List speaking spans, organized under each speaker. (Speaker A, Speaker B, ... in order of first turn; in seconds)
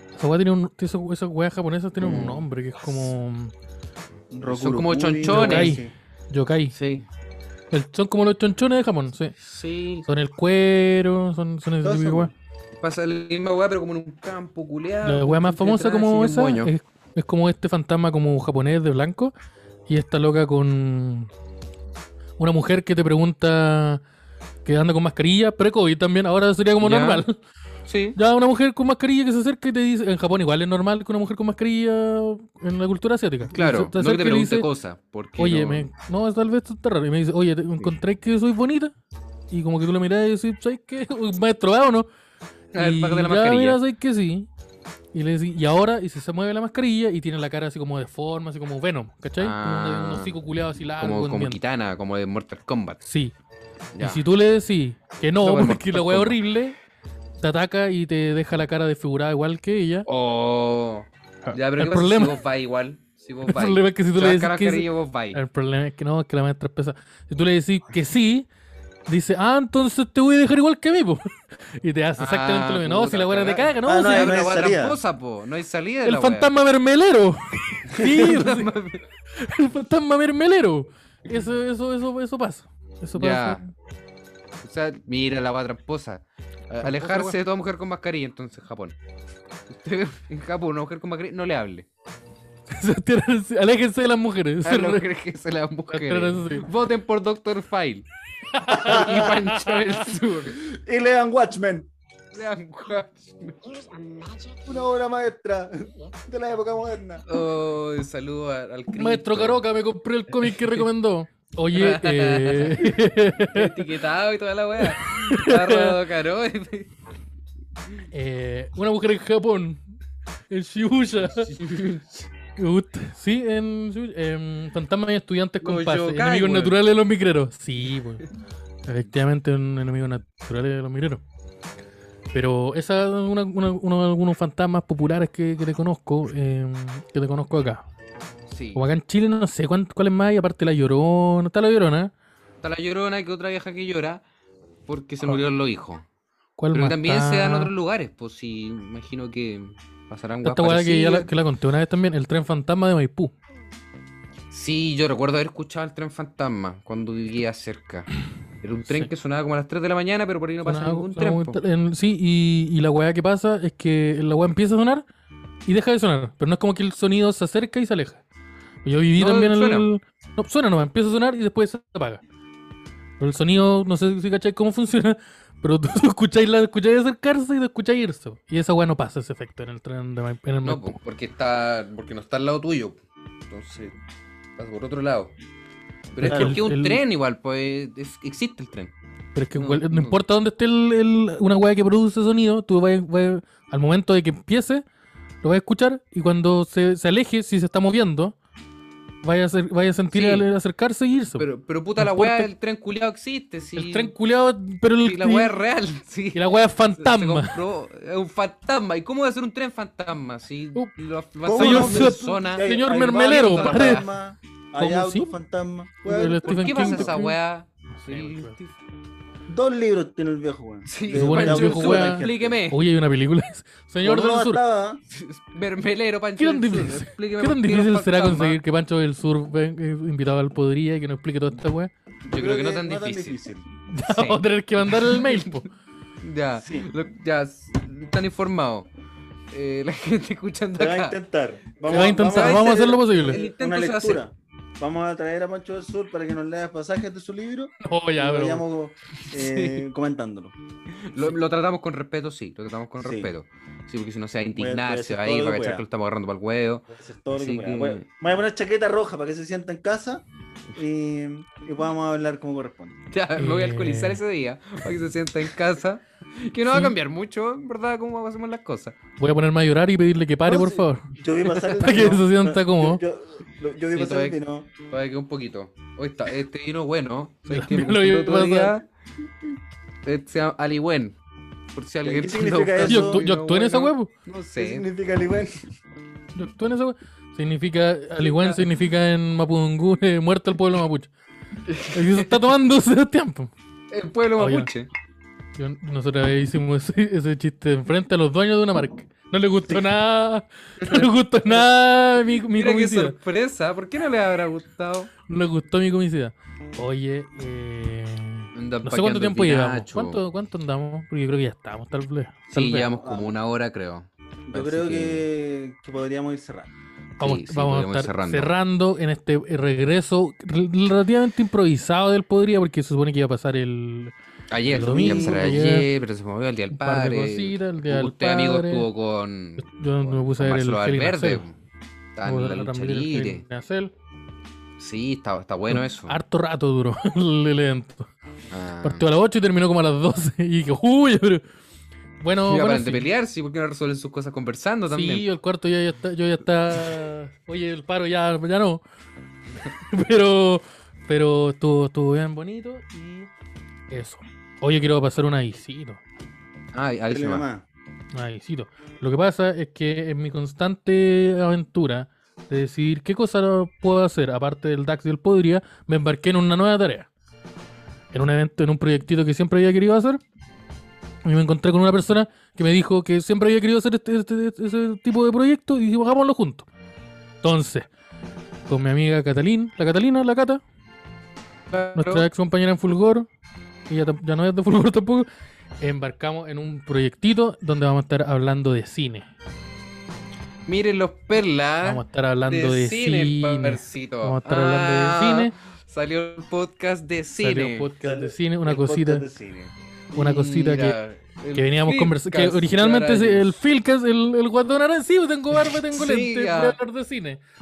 Speaker A: 0.1-3.5, 5.2-6.7, 7.7-9.3, 10.1-12.3, 15.0-19.3, 19.9-21.3, 22.4-24.0, 24.6-27.4, 28.1-34.7, 35.4-38.9, 39.5-42.1, 42.8-44.5, 45.1-51.6, 53.0-53.3, 54.0-56.8, 57.4-60.1, 61.4-62.4, 63.4-68.5, 69.1-74.4, 76.0-78.7, 79.3-83.7, 86.8-87.3, 92.7-95.0, 95.9-96.7, 98.5-100.1, 108.9-113.9, 114.8-116.0, 118.1-119.8, 120.5-121.5, 122.6-128.2, 128.9-131.2, 132.3-137.8, 138.7-142.1, 146.6-147.7, 150.4-153.3, 160.6-165.0, 165.7-168.2, 168.8-172.2, 173.2-181.0, 186.2-187.0, 189.3-194.8, 195.4-198.3, 199.2-201.4, 202.0-202.5, 203.8-205.5, 206.3-207.6, 211.5-214.0, 214.8-215.3, 216.0-217.4, 217.9-218.6, 221.1-224.6, 226.4-231.9, 233.9-235.7, 241.9-243.4, 247.8-248.6, 263.3-264.2, 266.7-266.9, 269.2-271.1, 271.7-273.0, 277.5-278.7, 282.9-284.1, 286.4-291.1, 291.9-293.5, 294.4-294.7, 295.6-303.1, 305.3-312.9, 317.2-324.1, 324.7-325.9, 326.7-328.9, 329.6-331.4, 332.2-333.9, 335.7-338.1, 338.8-341.4, 342.2-343.1, 344.9-348.8, 349.9-353.3, 353.9-356.0, 358.1-367.1, 368.1-370.2, 371.2-376.7, 377.4-377.9, 378.7-380.6, 381.9-383.3, 383.9-385.3, 385.8-389.3, 391.8-395.5, 397.4-399.2, 400.1-401.0, 401.5-407.4
Speaker B: 2.0-2.5, 4.5-5.7, 6.7-7.0, 9.4-10.1, 12.8-16.7, 26.8-27.2, 27.9-28.2, 33.5-35.9, 42.7-43.8, 49.4-50.4, 51.0-53.0, 53.9-54.2, 55.4-56.4, 60.1-65.4, 72.2-76.5, 77.9-79.0, 83.2-83.6, 84.6-89.0, 89.7-91.9, 94.6-98.1, 98.8-100.6, 102.3-104.2, 107.3-109.6, 110.3-110.8, 111.7-116.9, 121.4-122.3, 125.6-126.8, 138.5-138.8, 142.6-144.2, 144.9-146.0, 146.7-151.3, 154.5-158.1, 158.6-161.6, 169.2-169.9, 180.6-183.0, 183.5-183.9, 184.6-185.3, 186.1-188.9, 189.5-190.2, 200.1-200.5, 201.4-204.1, 205.0-214.1, 216.4-218.7, 220.9-222.8, 225.1-228.6, 232.3-233.4, 234.1-235.6, 236.2-238.9, 239.5-241.2, 241.8-244.2, 249.4-249.8, 250.9-258.1, 263.1-268.9, 273.9-278.8, 280.0-281.1, 281.7-284.9, 288.2-288.7, 291.7-292.3, 293.9-294.9, 300.8-301.6, 302.4-305.1, 308.5-310.2, 312.5-315.2, 317.2-318.5, 324.5-331.5, 332.1-333.4, 334.8-336.2, 338.5-339.1, 342.4-345.2, 356.7-357.4, 381.7-382.2, 390.7-397.9, 400.1-403.6, 405.7-406.8
Speaker C: 4.3-5.9, 11.8-12.3, 73.8-75.0, 98.7-99.4, 100.6-101.9, 104.7-107.2, 186.2-186.6, 211.4-217.2, 219.5-222.6, 224.0-225.0, 232.3-233.7, 236.6-236.9, 240.7-250.5, 253.0-253.3, 254.6-255.8, 256.9-262.9, 270.5-274.7, 282.0-283.3, 284.6-285.6, 312.9-313.3, 314.5-316.7, 324.7-325.6, 357.1-357.6, 398.0-399.7